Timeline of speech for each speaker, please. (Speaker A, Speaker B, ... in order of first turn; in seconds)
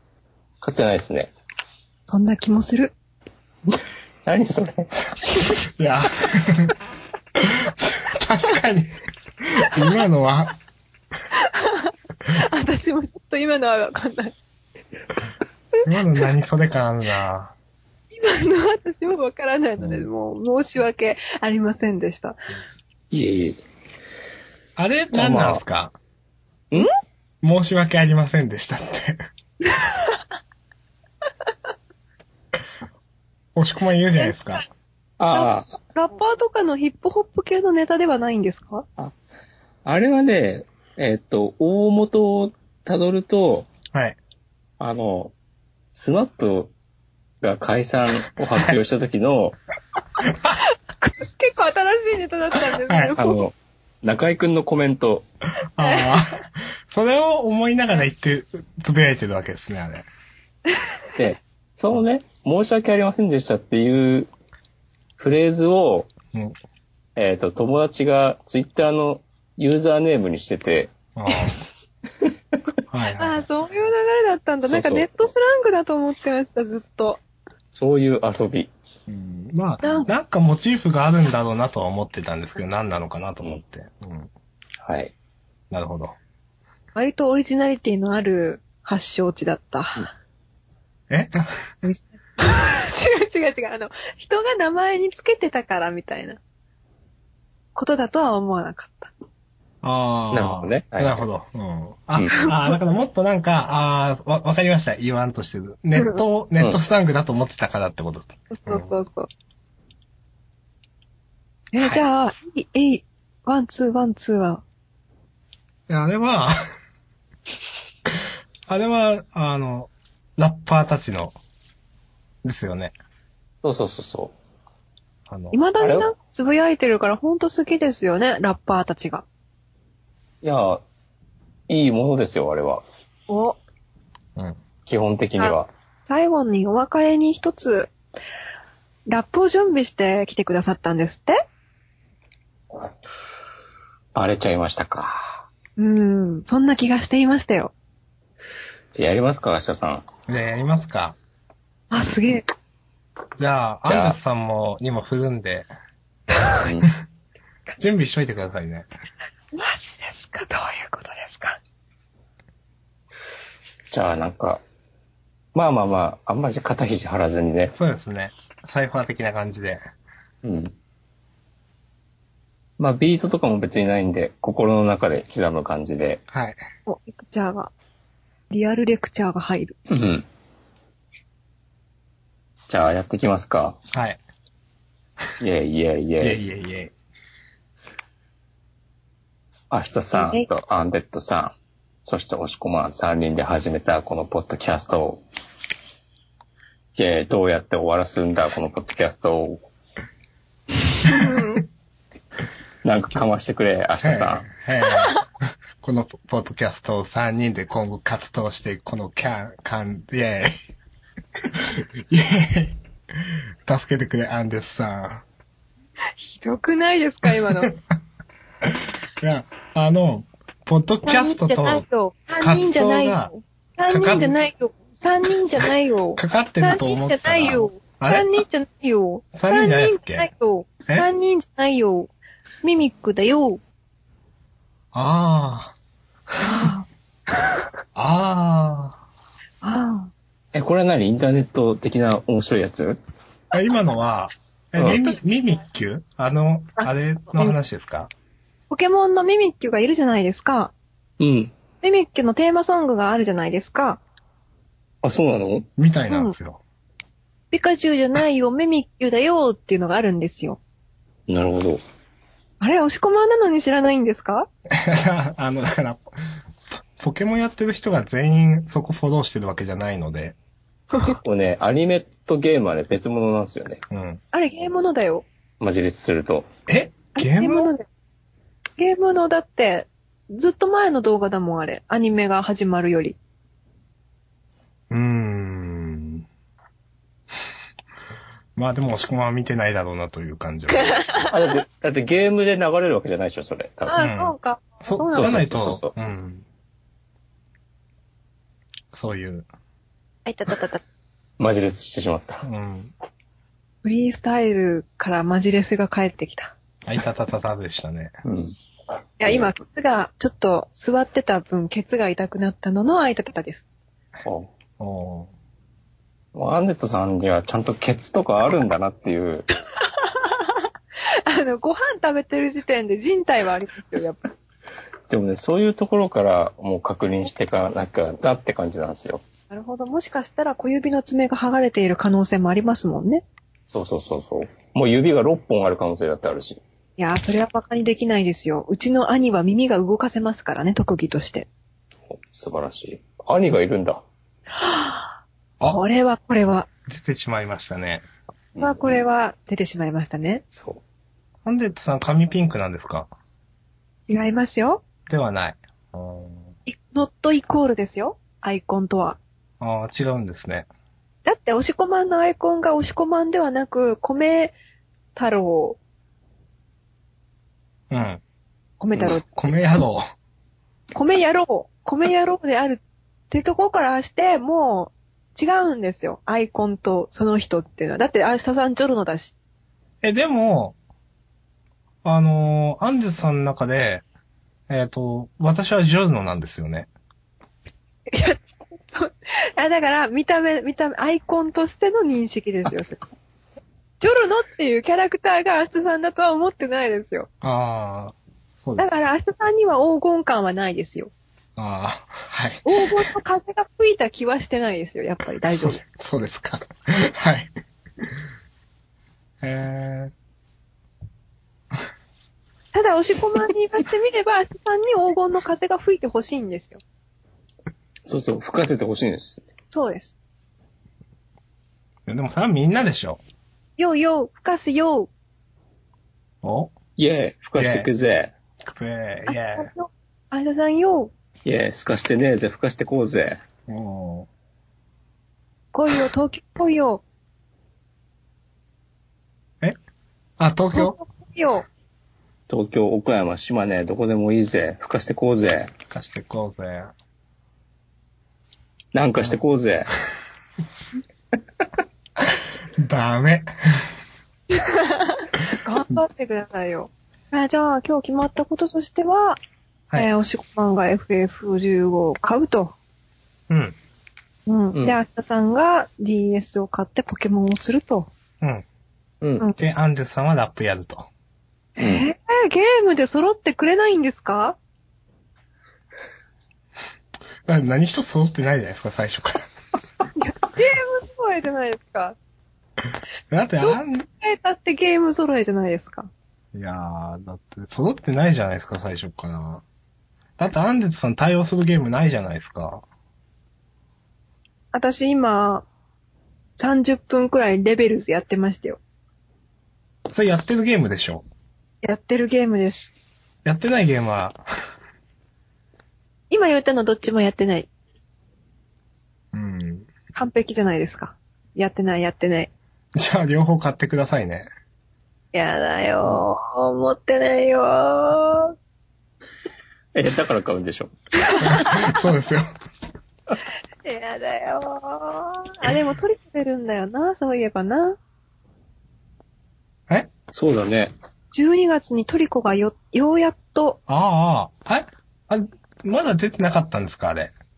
Speaker A: 0.6-1.3, 3.7-4.9, 23.1-23.6, 25.1-25.6, 35.2-35.7, 39.8-43.7, 44.8-45.3, 45.9-46.7, 47.4-49.6, 53.1-55.3, 61.1-64.3, 65.2-66.1, 67.2-70.9, 74.6-75.1, 77.7-78.7, 84.8-85.1, 100.3-101.2, 123.6-124.3, 125.8-126.1, 130.4-130.8, 131.7-132.8, 134.8-135.7, 144.1-145.4, 148.9-150.1, 153.8-154.2, 156.6-156.9, 163.9-164.6, 165.5-167.7, 170.4-170.7, 172.8-176.2, 179.9-180.2, 182.7-183.8, 185.4-186.4, 189.7-195.2, 196.9-199.7, 202.8-204.5, 240.5-243.0, 251.2-251.5, 255.0-255.7, 261.3-261.8, 271.0-273.8, 275.6-276.5, 291.3-294.1, 295.1-295.9, 301.4-302.4, 308.2-308.6, 309.2-309.5, 314.2-314.5, 316.3-319.5, 325.1-329.2, 333.7-336.6, 342.1-344.0, 348.6-349.0, 350.5-350.8, 418.0-419.4, 427.0-428.3, 431.4-433.4, 442.5-445.7, 448.9-449.9, 471.8-472.1, 519.9-520.9, 530.3-530.9
Speaker B: 2.1-2.9, 11.3-14.3, 18.1-22.4, 29.6-30.2, 34.2-34.6, 35.3-38.9, 51.0-53.4, 55.8-56.3, 73.2-77.2, 79.8-80.1, 86.9-90.1, 92.4-96.4, 97.7-99.1, 102.4-102.8, 106.0-106.2, 108.5-109.3, 111.7-114.6, 125.5-129.2, 133.3-133.6, 136.1-137.9, 139.1-141.4, 145.8-147.7, 151.9-152.4, 156.3-156.6, 159.5-161.6, 176.8-177.7, 178.5-179.8, 190.1-190.5, 201.1-201.6, 204.9-205.2, 216.2-217.7, 221.1-232.1, 232.6-233.6, 236.4-237.5, 239.6-240.1, 246.8-247.6, 248.7-250.7, 251.8-254.0, 256.1-256.3, 257.5-260.6, 262.6-264.5, 274.3-275.2, 277.1-277.9, 278.8-283.2, 290.7-291.4, 293.9-295.4, 300.2-300.8, 303.8-306.5, 309.2-313.6, 320.0-324.2, 329.5-333.2, 337.0-341.5, 344.6-346.7, 348.6-350.4, 354.1-354.8, 356.7-359.2, 361.2-364.5, 365.1-365.8, 368.8-369.2, 370.9-379.3, 388.1-393.0, 394.0-397.3, 398.8-401.1, 402.6-405.8, 412.7-416.8, 419.7-420.1, 423.8-425.1, 429.3-431.1, 435.7-437.0, 440.7-441.6, 454.5-459.4, 459.9-462.7, 464.5-468.1, 471.8-474.6, 480.2-482.1, 483.6-486.1, 494.7-495.6, 496.6-498.8, 501.8-502.9, 506.3-507.7, 510.1-512.5, 515.3-518.5, 521.2-522.0, 523.8-528.0, 531.3-533.8
Speaker C: 5.8-6.7, 7.4-10.5, 15.8-17.5, 24.8-25.9, 27.4-29.2, 33.5-34.6, 43.9-44.2, 50.3-50.6, 52.9-53.1, 55.8-60.0, 71.2-71.6, 72.9-73.5, 79.1-84.3, 85.7-86.2, 91.1-91.9, 99.8-108.9, 111.8-112.0, 115.9-116.6, 118.7-121.3, 122.4-122.9, 125.3-125.6, 150.3-151.2, 153.4-155.7, 157.8-158.9, 167.7-169.8, 176.3-176.6, 183.9-184.2, 186.2-186.9, 204.0-205.2, 205.8-210.5, 211.5-215.2, 217.2-217.8, 218.6-221.8, 222.4-223.3, 223.8-224.4, 226.2-228.3, 229.3-230.3, 234.9-235.7, 236.4-236.7, 237.9-239.0, 243.5-248.1, 255.8-256.6, 264.7-266.0, 267.0-270.4, 273.9-274.2, 276.7-277.7, 284.9-286.2, 288.6-291.0, 294.0-296.4, 298.9-299.5, 302.4-302.9, 306.9-308.1, 314.8-315.3, 346.9-348.1, 351.4-353.1, 355.1-356.5, 359.6-360.7, 367.9-368.2, 369.0-370.0, 380.0-380.8, 382.0-384.0, 384.7-386.9, 397.4-398.9, 401.6-403.1, 405.6-407.5, 409.4-410.1, 422.1-423.2, 426.4-426.7, 427.6-427.9, 428.6-429.7, 433.7-434.3, 440.4-440.9, 445.9-446.9, 452.8-453.9, 463.5-463.8, 469.6-471.1, 477.4-479.4, 483.3-484.1, 486.5-489.6, 490.4-492.8, 500.1-501.2, 503.4-504.4, 509.3-509.9, 512.9-514.5, 521.4-522.5, 533.9-537.3